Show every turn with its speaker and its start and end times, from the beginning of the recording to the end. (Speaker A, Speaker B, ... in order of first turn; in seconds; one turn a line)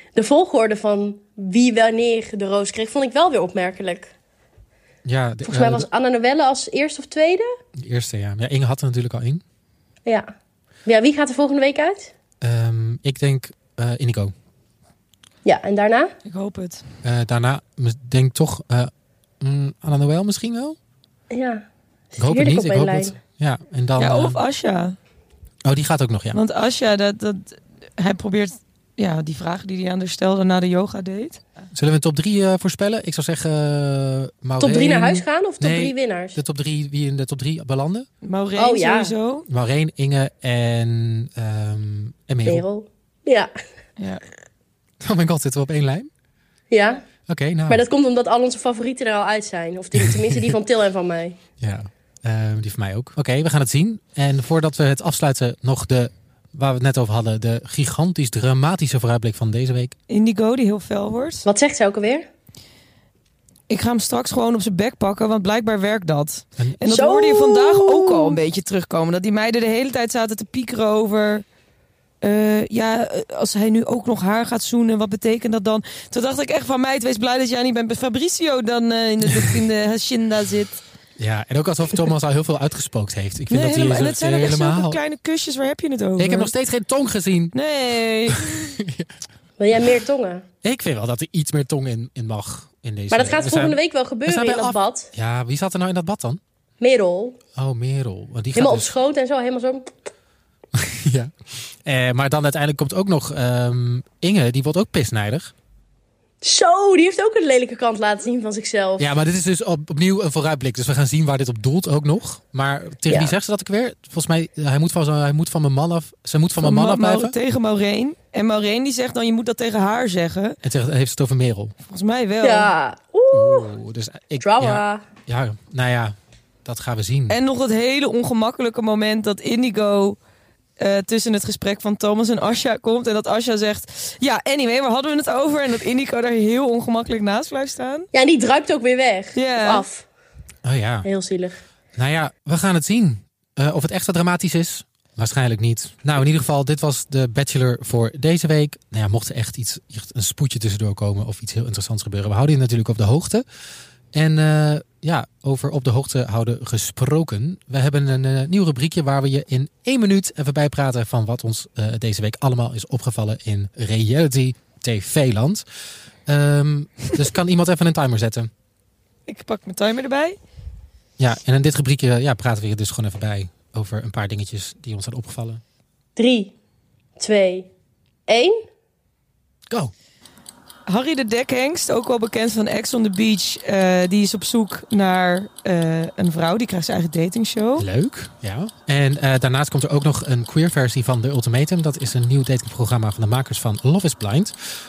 Speaker A: 0.1-4.1
Speaker B: 5.0-5.9
Speaker A: 5.4-7.5
Speaker B: 7.8-9.4
Speaker A: 10.1-10.3
Speaker A: 10.8-12.1
Speaker B: 12.4-14.3
Speaker A: 15.4-16.1
Speaker C: 16.2-16.8
Speaker B: 17.0-20.8
Speaker A: 21.3-23.1
Speaker B: 22.2-24.4
Speaker C: 24.0-24.9
Speaker B: 25.6-26.4
Speaker C: 26.3-31.4
Speaker B: 31.7-38.1
Speaker A: 34.6-36.4
Speaker C: 38.2-39.5
Speaker A: 38.6-39.1
Speaker B: 39.5-42.6
Speaker A: 42.4-43.5
Speaker C: 44.0-44.2
Speaker B: 45.0-46.1
Speaker A: 46.7-47.0
Speaker B: 47.3-47.8
Speaker A: 47.7-51.4
Speaker B: 50.0-50.5
Speaker B: 51.6-59.9
Speaker C: 60.1-61.5
Speaker A: 61.4-62.3
Speaker C: 63.7-71.4
Speaker A: 66.8-68.4
Speaker C: 72.2-80.8
Speaker B: 81.2-85.0
Speaker C: 83.5-86.5
Speaker B: 86.2-87.5
Speaker C: 87.5-88.8
Speaker B: 88.3-89.1
Speaker A: 89.6-90.4
Speaker B: 90.6-96.4
Speaker A: 93.1-95.1
Speaker A: 96.8-97.4
Speaker B: 97.5-98.9
Speaker A: 98.5-99.9
Speaker B: 100.7-105.5
Speaker A: 106.4-109.1
Speaker B: 109.0-117.3
Speaker A: 113.1-113.3
Speaker C: 116.6-120.6
Speaker B: 120.6-121.7
Speaker C: 121.8-122.7
Speaker A: 122.4-123.7
Speaker B: 123.3-127.4
Speaker A: 124.4-125.0
Speaker C: 127.3-130.2
Speaker C: 130.8-138.1
Speaker A: 138.1-140.1
Speaker C: 139.3-139.8
Speaker B: 140.6-141.1
Speaker A: 141.0-141.6
Speaker B: 141.9-153.4
Speaker B: 154.1-165.6
Speaker B: 166.2-168.5
Speaker C: 169.3-170.4
Speaker B: 171.2-175.6
Speaker A: 176.2-176.5
Speaker A: 177.2-177.7
Speaker A: 178.3-178.7
Speaker C: 180.9-187.9
Speaker B: 187.8-194.5